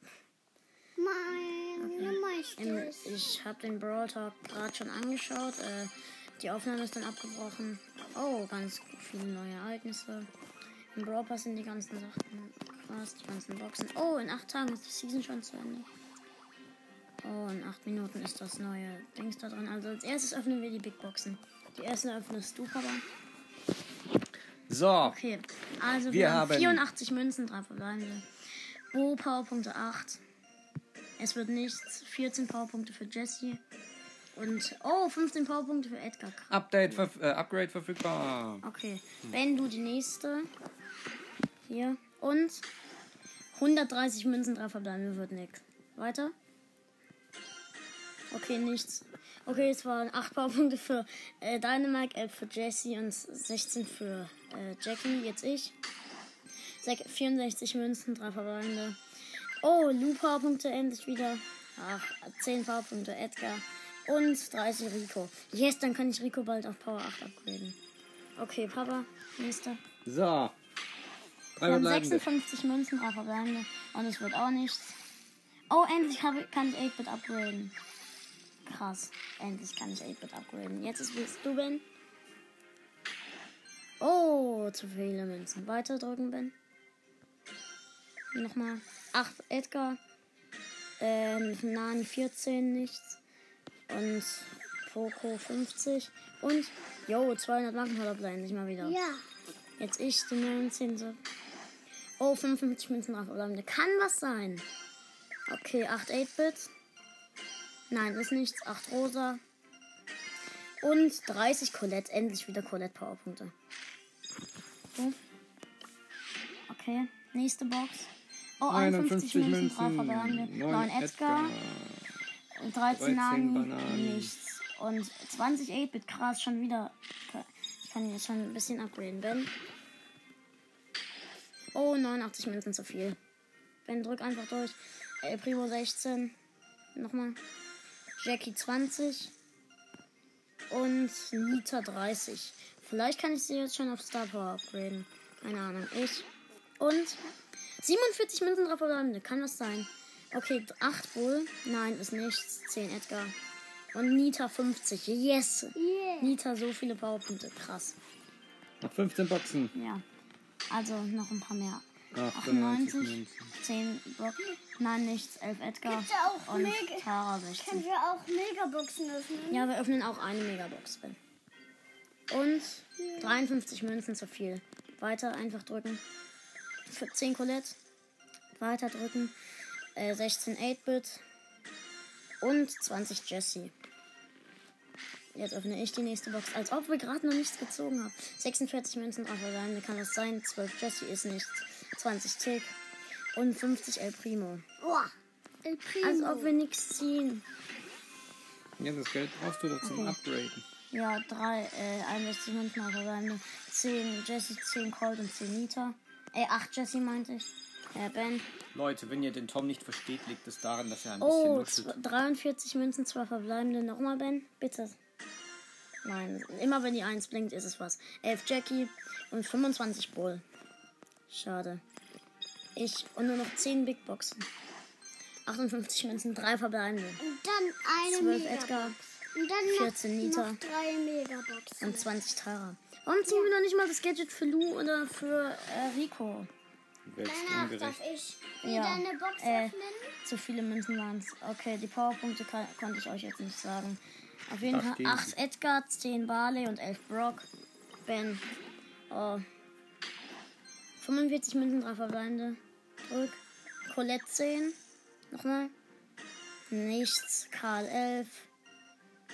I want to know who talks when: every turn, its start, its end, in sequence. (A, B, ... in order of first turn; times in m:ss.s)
0:01.0-0:03.2 A
0:01.8-0:10.3 B
0:10.9-0:15.9 B
0:17.2-0:23.0 B
0:24.7-0:25.2 C
0:25.0-0:28.3 B
0:26.1-0:26.8 C
0:28.9-0:30.2 B
0:31.2-0:33.6 B
0:34.3-0:37.1 B
0:36.5-0:38.6 C
0:38.6-0:40.5 B
0:41.7-0:42.6 B
0:43.5-0:46.3 B
0:48.3-0:55.7 B
0:56.8-0:59.0 B
0:59.6-1:07.8 B
1:08.4-1:09.8 B
1:10.0-1:10.5 C
1:11.6-1:12.2 C
1:11.6-1:15.0 B
1:15.7-1:17.7 B
1:18.6-1:21.8 B
1:24.0-1:26.5 B
1:28.3-1:30.0 B
1:31.0-1:33.2 B
1:33.9-1:39.0 B
1:38.8-1:39.2 A
1:39.8-1:41.2 B
1:42.2-1:44.6 B
1:45.5-1:46.7 B
1:47.9-1:49.4 B
1:50.8-1:53.5 B
1:54.9-1:55.2 B
1:56.7-2:01.5 B
1:58.7-2:02.1 C
2:02.5-2:09.5 B
2:02.9-2:04.3 C
2:11.7-2:13.2 B
2:13.8-2:16.3 B
2:16.9-2:17.4 B
2:18.2-2:19.3 B
2:20.7-2:26.3 B
2:26.8-2:27.2 B
2:27.8-2:33.3 B
2:33.9-2:38.0 B
2:35.7-2:36.4 A
2:38.8-2:39.7 C
2:39.7-2:40.0 B
2:40.7-2:47.8 B
2:42.1-2:43.5 C
2:45.8-2:49.7 A
2:49.5-2:51.2 B
2:52.3-2:56.0 B
2:53.0-2:53.4 A
2:56.9-2:57.8 B
2:58.6-2:59.3 B
3:00.0-3:01.2 B
3:02.4-3:03.7 B
3:05.3-3:12.8 B
3:13.3-3:14.6 B
3:14.8-3:15.1 A
3:15.6-3:16.5 A
3:16.0-3:17.4 B
3:18.8-3:20.7 C
3:19.8-3:20.2 B
3:20.9-3:28.4 B
3:28.7-3:32.0 C
3:31.2-3:35.0 B
3:36.0-3:40.4 B
3:41.3-3:41.8 B
3:42.8-3:44.5 B
3:45.4-3:47.2 B
3:47.2-3:52.1 A
3:48.1-3:49.0 B
3:49.7-3:50.6 B
3:51.8-3:56.5 B
3:53.2-3:53.5 A
3:57.0-3:58.0 C
3:57.2-4:00.1 A
3:58.6-4:07.5 B
4:04.6-4:05.3 C
4:08.0-4:08.4 B
4:09.1-4:09.4 B
4:11.0-4:14.8 B
4:15.3-4:15.7 B
4:16.7-4:18.5 B